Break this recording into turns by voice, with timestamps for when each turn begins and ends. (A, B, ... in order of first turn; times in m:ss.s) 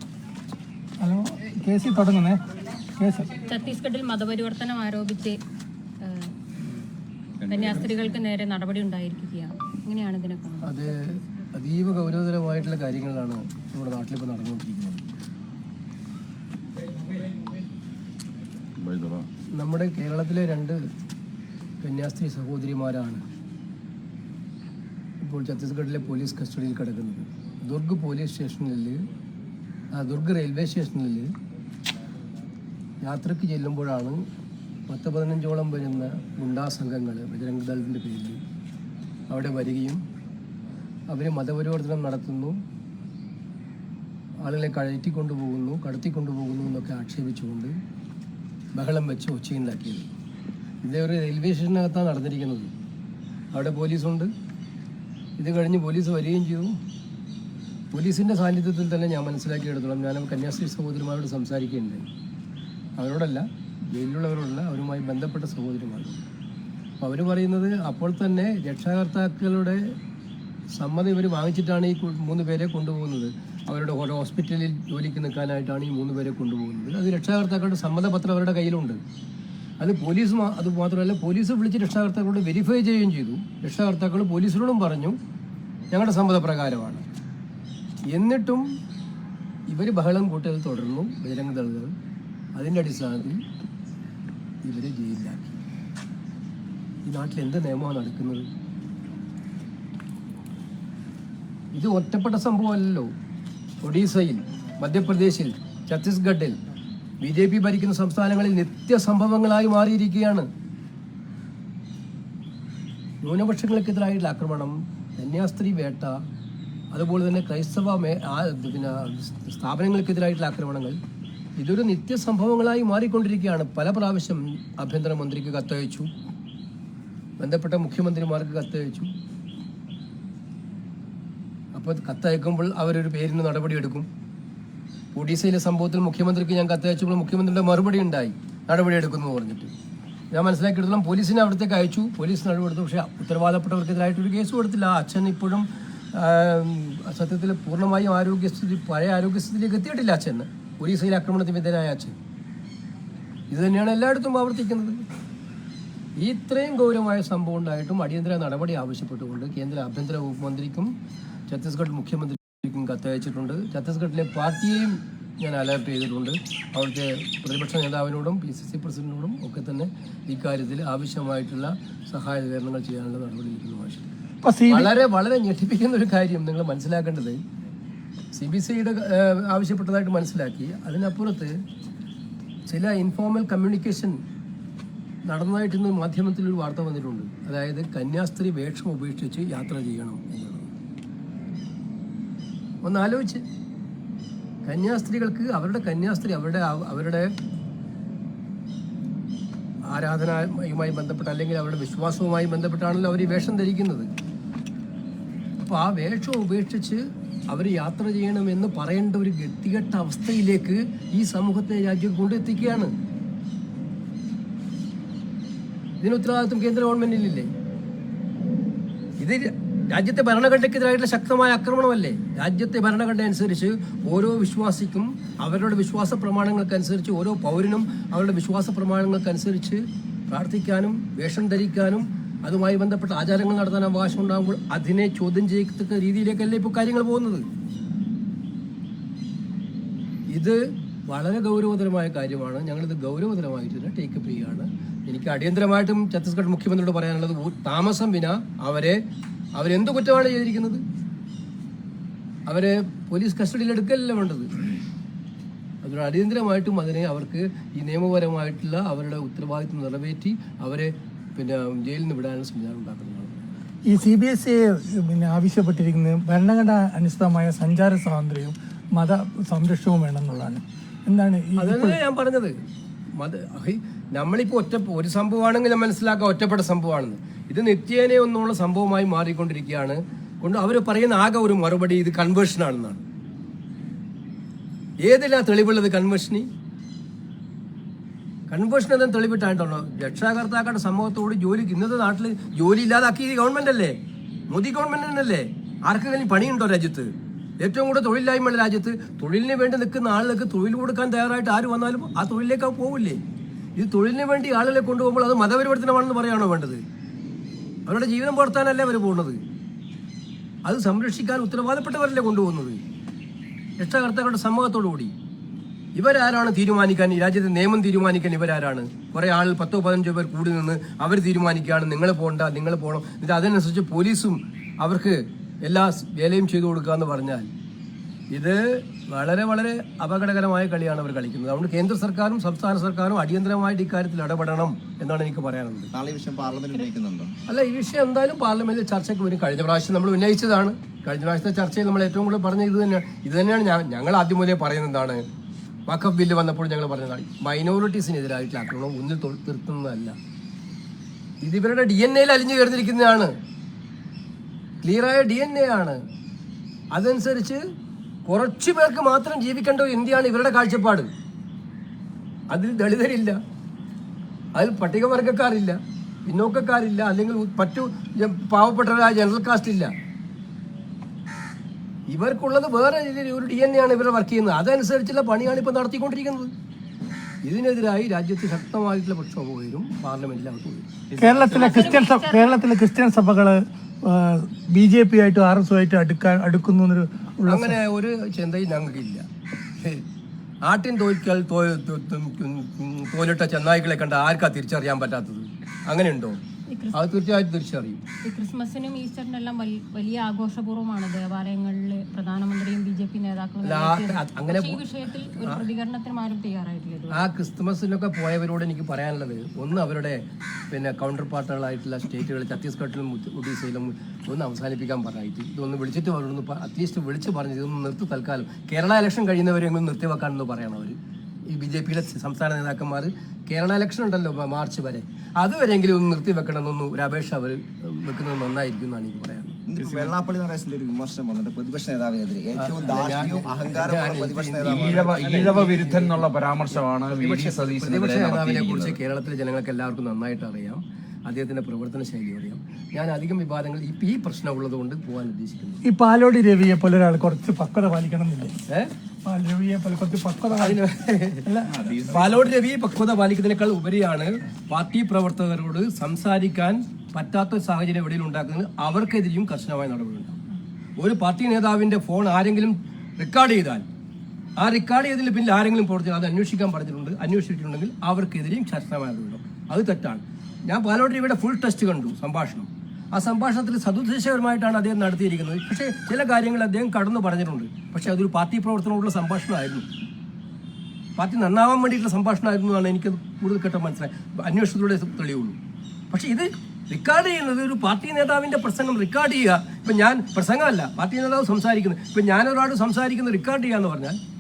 0:01.0-0:02.4 A
0:03.0-0:03.3 A
0:03.4-0:05.4 B
0:06.0-0:06.3 B
0:07.4-0:10.7 B
0:10.6-0:15.0 C
0:18.8-0:19.3 D
0:19.6-0:20.8 C
0:21.8-0:23.2 C
0:25.2-0:29.1 C
0:29.9-0:31.3 C
0:33.0-0:34.2 C
0:34.9-0:38.4 C
0:39.3-0:40.0 C
0:41.1-0:42.6 C
0:44.4-0:47.7 C
0:48.8-0:50.1 C
0:50.8-0:52.7 C
0:53.5-0:54.3 C
0:55.4-0:56.7 C
0:57.9-1:02.1 C
1:03.0-1:06.2 C
1:07.0-1:09.9 C
1:10.7-1:19.0 C
1:19.8-1:25.2 C
1:25.9-1:27.0 C
1:28.1-1:28.7 C
1:29.7-1:31.9 C
1:32.6-1:33.4 C
1:34.6-1:35.6 C
1:37.0-1:38.5 C
1:41.7-1:43.1 C
1:43.8-1:46.6 C
1:47.2-1:50.5 C
1:53.2-1:56.2 C
1:56.9-2:01.0 C
2:01.6-2:06.1 C
2:07.4-2:09.1 C
2:11.7-2:14.1 C
2:15.1-2:19.7 C
2:20.3-2:32.2 C
2:33.5-2:35.0 C
2:36.2-2:40.9 C
2:41.5-2:54.1 C
2:54.4-2:54.9 A
2:54.7-2:57.4 C
2:58.3-3:01.6 C
3:02.7-3:04.2 C
3:05.2-3:10.7 C
3:12.8-3:13.4 C
3:14.6-3:17.3 C
3:19.9-3:24.1 C
3:25.6-3:32.9 C
3:36.0-3:37.5 C
3:39.2-3:57.5 C
4:00.3-4:09.0 C
4:09.6-4:10.8 C
4:12.5-4:14.5 C
4:15.8-4:23.4 C
4:23.8-4:32.0 A
4:31.6-4:32.6 C
4:33.2-4:43.0 C
4:45.0-4:46.5 C
4:48.5-4:54.0 C
4:54.5-5:03.2 C
5:03.8-5:06.8 C
5:07.9-5:09.4 C
5:10.7-5:12.8 C
5:13.8-5:15.1 C
5:16.0-5:27.5 C
5:28.3-5:35.9 C
5:35.9-5:37.3 E
5:37.5-5:45.2 C
5:45.9-5:50.2 C
5:51.4-5:53.3 C
5:54.8-5:56.0 C
5:56.9-5:57.6 C
5:58.2-6:01.1 C
6:02.5-6:03.4 C
6:04.6-6:09.9 C
6:12.1-6:16.5 C
6:17.4-6:20.9 C
6:21.1-6:21.8 D
6:21.2-6:27.8 A
6:21.4-6:22.6 B
6:27.5-6:29.3 C
6:29.8-6:30.0 C
6:30.6-6:36.4 C
6:36.7-6:37.0 B
6:36.9-6:38.0 C
6:38.2-6:47.3 B
6:43.6-6:44.8 C
6:45.4-6:45.6 C
6:47.1-7:09.6 C
7:09.7-7:15.7 E
7:09.8-7:10.1 D
7:12.6-7:16.3 C
7:14.6-7:19.0 D
7:17.1-7:17.7 E
7:17.6-7:25.8 C
7:25.8-7:28.6 A
7:29.2-7:30.8 A
7:30.5-7:31.5 C
7:31.4-7:31.8 A
7:31.7-7:32.4 D
7:32.0-7:40.4 C
7:41.0-7:43.8 C
7:44.6-7:59.9 C
8:01.2-8:05.6 C
8:06.1-8:14.2 C